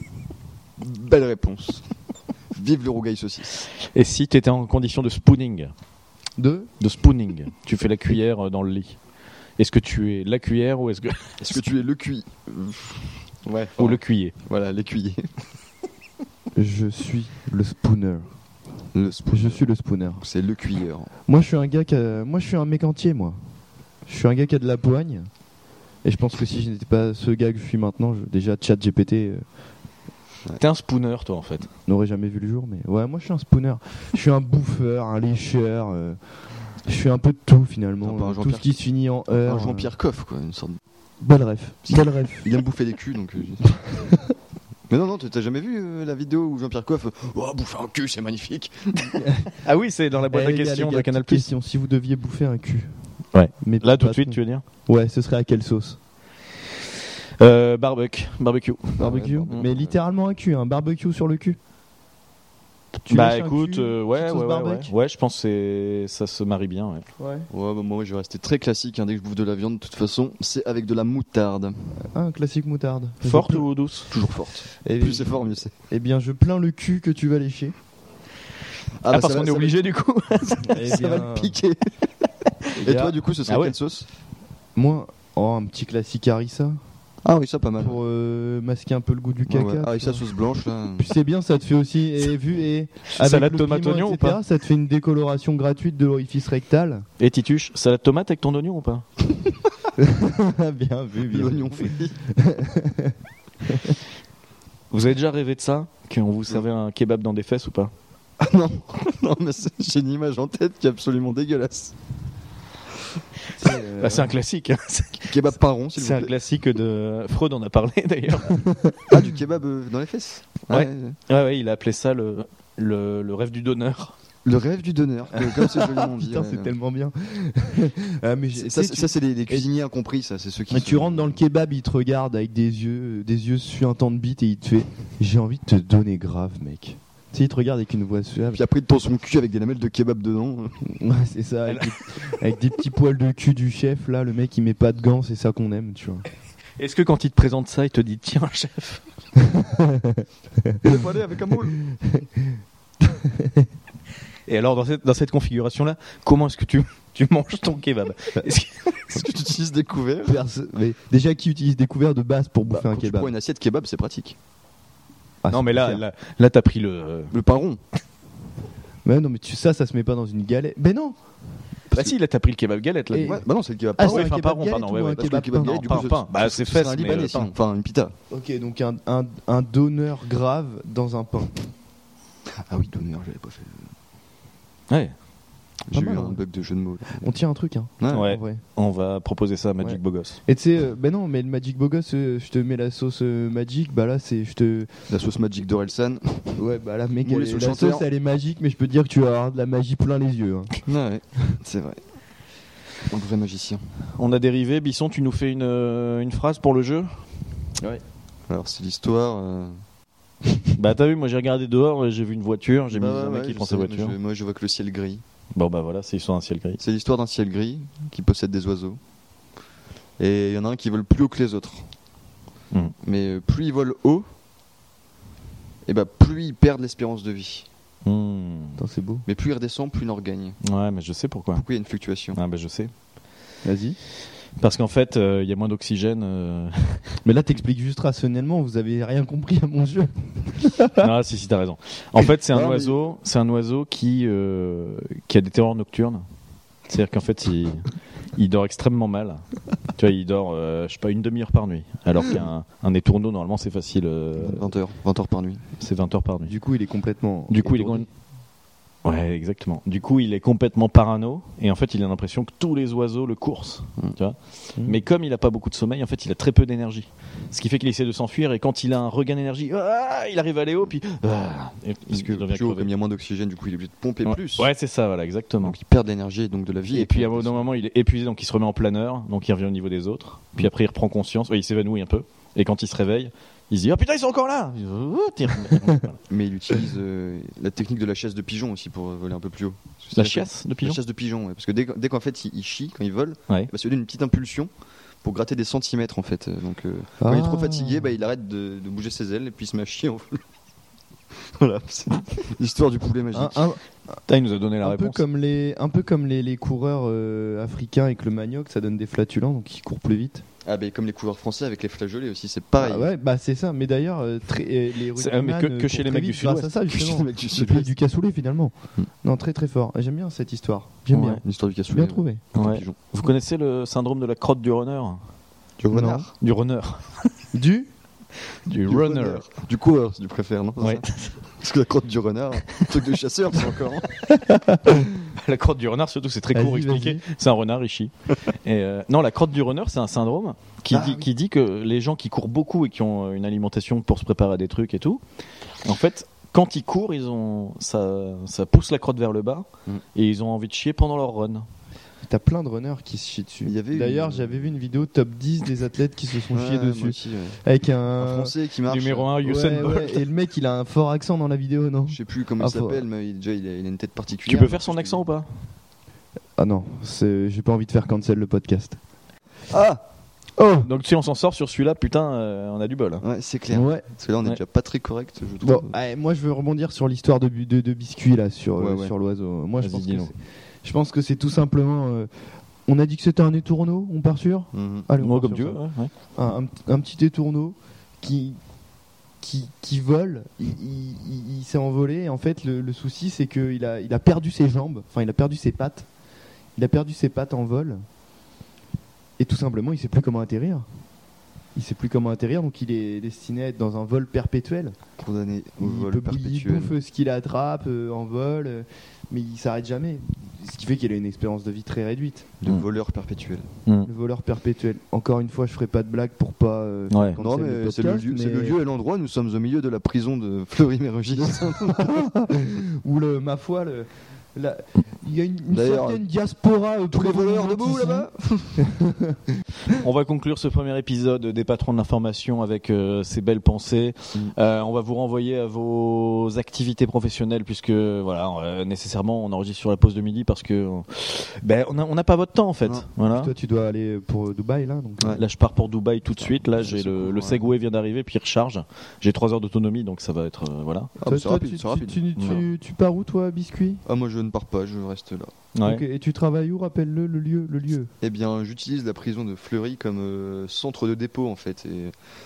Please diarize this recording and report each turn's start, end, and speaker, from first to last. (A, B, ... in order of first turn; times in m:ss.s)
0:00.8-0:01.9 A
0:02.5-0:03.6 A
0:03.8-0:05.7 B
0:06.4-0:06.7 C
0:06.8-0:09.0 B
0:09.6-0:11.6 B
0:11.4-0:13.2 A
0:13.5-0:14.3 B
0:13.8-0:15.3 A
0:16.6-0:18.3 C
0:18.9-0:19.6 A
0:19.3-0:20.2 C
0:20.2-0:21.1 A
0:21.3-0:23.4 C
0:24.1-0:25.3 C
0:26.0-0:29.4 C
0:30.6-0:31.7 B
0:31.9-0:36.2 C
0:36.8-0:39.9 C
0:38.0-0:40.8 A
0:41.2-0:42.5 C
0:41.9-0:43.7 A
0:43.9-0:44.3 C
0:44.9-0:49.2 A
0:49.2-0:49.5 C
0:49.6-0:51.5 B
0:50.3-0:53.0 C
0:53.3-0:54.6 B
0:53.6-0:56.0 C
0:57.4-0:59.6 B
0:59.0-1:00.0 A
0:59.0-1:01.6 C
1:03.1-1:04.9 C
1:03.1-1:07.1 B
1:07.2-1:07.5 C
1:07.5-1:11.9 A
1:12.0-1:13.7 C
1:13.2-1:14.1 B
1:14.1-1:15.7 A
1:14.8-1:17.8 C
1:19.0-1:19.8 A
1:19.1-1:20.6 B
1:20.4-1:21.9 A
1:20.6-1:21.6 C
1:22.8-1:23.2 C
1:22.8-1:24.1 A
1:23.5-1:23.8 B
1:24.8-1:26.8 C
1:27.2-1:28.0 A
1:27.8-1:30.2 C
1:29.5-1:31.1 A
1:31.0-1:37.1 C
1:33.2-1:34.4 B
1:37.2-1:39.1 B
1:40.0-1:44.0 C
1:41.3-1:42.2 A
1:44.9-1:47.9 B
1:48.4-1:52.0 A
1:53.5-1:54.3 C
1:53.8-1:58.7 B
1:55.3-1:56.3 A
1:58.6-1:59.0 C
1:59.1-2:01.2 A
2:00.7-2:04.2 B
2:04.5-2:06.7 A
2:05.3-2:09.7 C
2:08.5-2:11.4 A
2:10.7-2:18.6 C
2:18.5-2:20.8 A
2:20.9-2:26.2 C
2:26.8-2:29.0 B
2:29.4-2:30.9 C
2:30.8-2:31.8 A
2:31.9-2:32.4 C
2:33.1-2:33.7 C
2:34.5-2:39.3 B
2:39.1-2:40.4 A
2:40.2-2:43.3 C
2:42.7-2:44.4 A
2:45.4-2:46.0 C
2:45.5-2:47.4 B
2:47.3-2:47.8 A
2:49.0-2:51.2 C
2:51.9-2:52.2 A
2:51.9-2:53.4 B
2:53.1-2:53.4 C
2:53.2-2:54.3 A
2:54.0-2:56.1 C
2:54.0-2:57.5 B
2:55.2-2:58.2 A
2:58.3-3:01.7 C
3:02.5-3:03.8 A
3:05.9-3:07.3 A
3:05.9-3:06.4 C
3:07.2-3:08.6 C
3:08.0-3:08.4 A
3:08.1-3:10.4 B
3:09.8-3:14.9 C
3:15.1-3:16.6 A
3:16.6-3:20.7 C
3:17.2-3:18.1 A
3:20.9-3:22.0 A
3:23.1-3:23.9 A
3:24.2-3:27.2 B
3:28.5-3:29.8 A
3:30.8-3:34.2 B
3:32.9-3:35.2 A
3:35.6-3:36.8 B
3:36.8-3:39.0 A
3:40.2-3:41.9 A
3:43.0-3:44.3 A
3:45.8-3:47.7 A
3:48.0-3:48.8 B
3:48.8-3:49.2 C
3:49.3-3:50.6 A
3:50.6-3:51.6 B
3:51.5-3:52.4 A
3:52.4-3:52.9 B
3:53.6-3:54.0 C
3:54.6-3:57.1 B
3:57.2-4:01.1 C
4:01.0-4:06.2 B
4:02.5-4:03.0 A
4:06.9-4:09.4 B
4:10.0-4:14.7 B
4:14.4-4:15.6 A
4:15.8-4:16.5 B
4:16.5-4:18.1 C
4:17.5-4:18.1 B
4:19.0-4:32.9 B
4:32.1-4:34.7 A
4:34.3-4:35.8 B
4:35.6-4:37.7 A
4:36.9-4:46.2 B
4:46.3-4:54.7 A
4:50.2-4:51.0 B
4:55.2-5:00.4 A
4:57.2-4:58.1 C
5:01.3-5:03.6 A
5:03.3-5:03.8 C
5:04.3-5:05.2 B
5:04.8-5:10.4 C
5:10.6-5:13.1 A
5:12.8-5:22.4 C
5:15.2-5:16.7 B
5:16.9-5:17.9 A
5:21.1-5:21.4 B
5:21.4-5:23.0 A
5:22.6-5:25.2 B
5:25.8-5:26.3 A
5:25.9-5:26.2 C
5:26.4-5:27.3 B
5:27.5-5:27.9 C
5:28.5-5:29.4 B
5:28.9-5:34.2 A
5:30.8-5:31.4 B
5:34.3-5:35.3 C
5:35.3-5:45.2 B
5:36.5-5:37.2 C
5:40.9-5:41.3 A
5:45.8-5:51.7 B
5:52.3-5:58.5 C
5:53.6-5:54.7 A
5:56.5-5:57.6 A
5:58.2-5:59.3 A
5:58.9-6:00.2 B
5:59.4-6:03.0 C
6:02.1-6:05.2 A
6:04.5-6:05.5 B
6:06.6-6:09.0 C
6:09.7-6:10.0 A
6:10.6-6:10.9 C
6:10.8-6:13.2 B
6:13.2-6:15.9 A
6:13.7-6:14.0 C
6:15.6-6:22.3 C
6:18.8-6:19.1 A
6:19.8-6:20.3 B
6:22.9-6:25.8 C
6:24.7-6:25.1 A
6:25.2-6:26.1 B
6:26.4-6:28.6 C
6:29.4-6:36.1 C
6:36.8-6:38.0 C
6:39.4-6:40.9 C
6:41.8-6:45.0 C
6:45.2-6:46.9 A
6:45.8-6:52.5 C
6:52.6-6:53.7 A
6:54.1-6:58.8 C
6:57.1-6:57.4 B
6:57.4-7:02.2 A
7:01.7-7:08.3 C
7:05.7-7:06.2 A
7:07.1-7:08.8 A
7:08.8-7:09.4 C
7:10.0-7:23.5 B
7:23.3-7:25.4 C
7:25.4-7:31.1 B
7:26.4-7:27.6 A
7:31.2-7:32.6 A
7:31.2-7:34.0 C
7:34.0-7:35.5 A
7:35.8-7:36.0 B
7:35.8-7:38.1 C
7:38.2-7:42.2 A